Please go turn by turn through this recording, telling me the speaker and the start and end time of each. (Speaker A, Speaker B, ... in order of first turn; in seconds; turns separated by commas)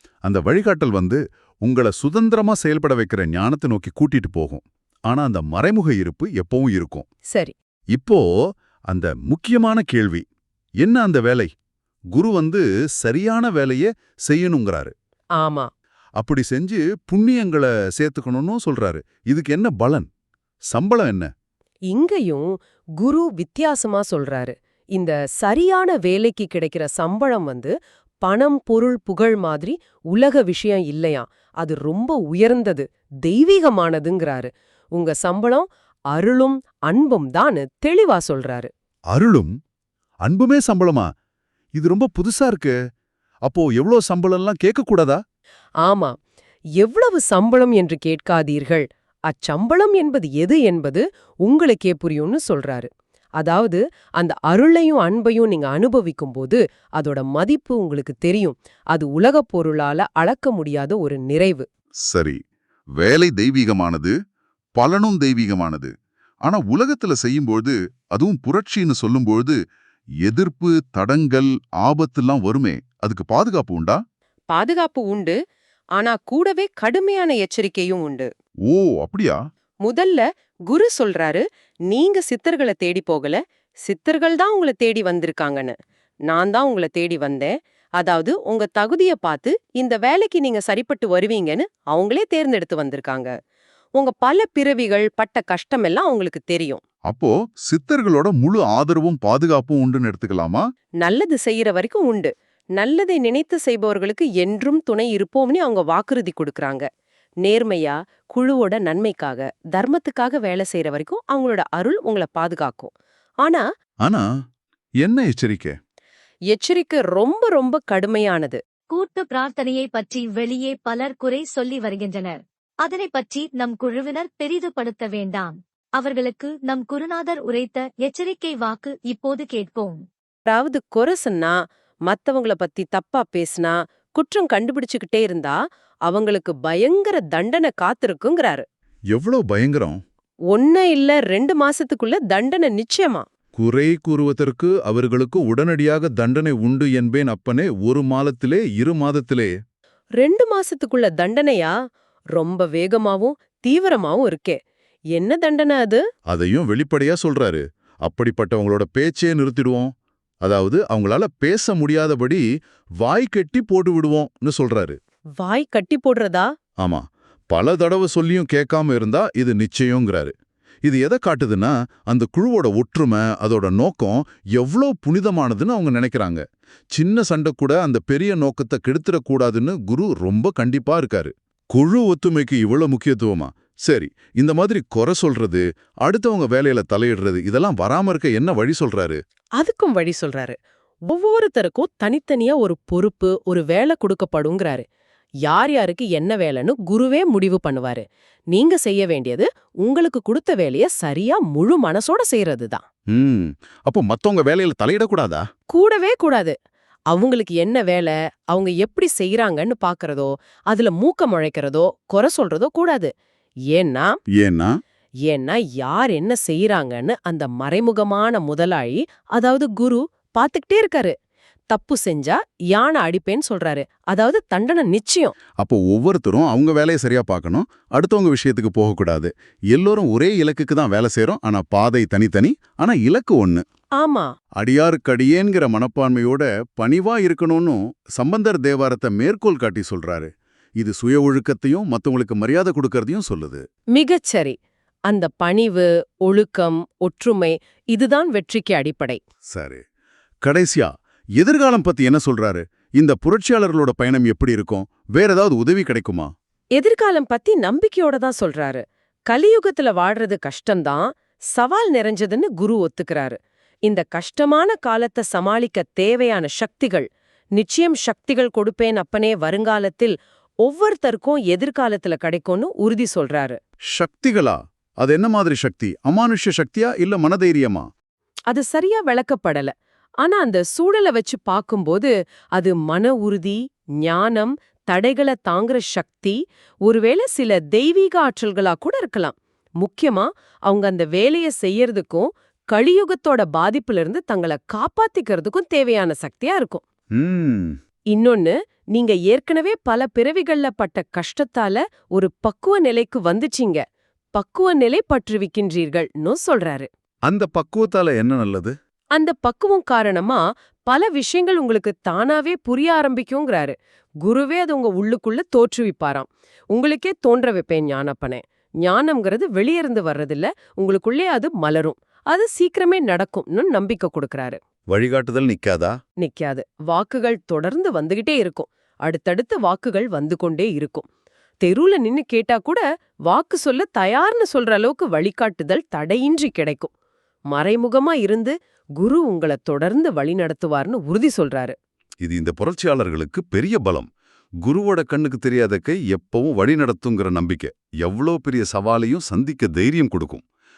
Speaker A: 0.2-7.0, Speaker A: 7.9-8.2, Speaker A: 8.9-10.2, Speaker A: 10.8-11.5, Speaker A: 12.1-14.9, Speaker B: 15.4-15.7, Speaker A: 16.2-20.1, Speaker A: 20.7-21.3, Speaker B: 21.9-27.7, Speaker B: 28.2-38.7, Speaker A: 39.1-39.5, Speaker A: 40.2-41.1, Speaker A: 41.8-42.7, Speaker A: 43.5-45.2, Speaker B: 45.8-46.1, Speaker B: 46.8-61.7, Speaker A: 62.1-62.4, Speaker A: 63.0-64.1, Speaker A: 64.8-65.9, Speaker A: 66.5-69.5, Speaker A: 70.2-74.0, Speaker B: 74.5-75.4, Speaker B: 76.0-78.3, Speaker A: 78.7-79.4, Speaker B: 79.8-85.8, Speaker B: 86.3-93.3, Speaker B: 94.0-96.8, Speaker A: 97.1-100.6, Speaker B: 101.0-106.9, Speaker B: 107.4-113.6, Speaker A: 115.0-115.8, Speaker B: 116.5-118.6, Speaker C: 118.9-130.0, Speaker B: 130.5-131.5, Speaker B: 132.1-135.6, Speaker B: 136.1-138.7, Speaker A: 139.1-140.0, Speaker B: 140.5-143.2, Speaker A: 143.6-149.5, Speaker B: 150.2-151.7, Speaker B: 152.3-154.6, Speaker B: 155.1-156.0, Speaker A: 156.3-159.9, Speaker A: 160.4-162.4, Speaker A: 163.0-165.0, Speaker B: 165.4-166.5, Speaker A: 166.8-170.3, Speaker A: 170.8-189.2, Speaker B: 189.6-190.6, Speaker B: 191.1-194.8, Speaker B: 195.4-202.8, Speaker A: 203.1-205.4, Speaker B: 205.7-206.6, Speaker B: 207.1-213.1, Speaker B: 213.7-214.2, Speaker A: 214.4-214.7, Speaker B: 215.2-221.1, Speaker B: 221.7-225.3, Speaker A: 225.6-233.6, Speaker B: 234.0-234.3, Speaker A: 234.6-243.6, Speaker B: 243.9-244.6, Speaker B: 245.1-249.2, Speaker A: 249.5-249.8, Speaker A: 250.4-256.3, Speaker B: 256.8-273.6, Speaker A: 273.9-277.9, Speaker B: 278.5-296.8, Speaker A: 297.1-297.8, Speaker B: 298.1-306.9, Speaker A: 307.3-308.7, Speaker B: 309.1-324.6, Speaker A: 324.9-325.9, Speaker B: 326.2-331.1, Speaker B: 331.6-336.9, Speaker B: 337.5-341.8, Speaker A: 342.2-344.1, Speaker A: 344.6-350.4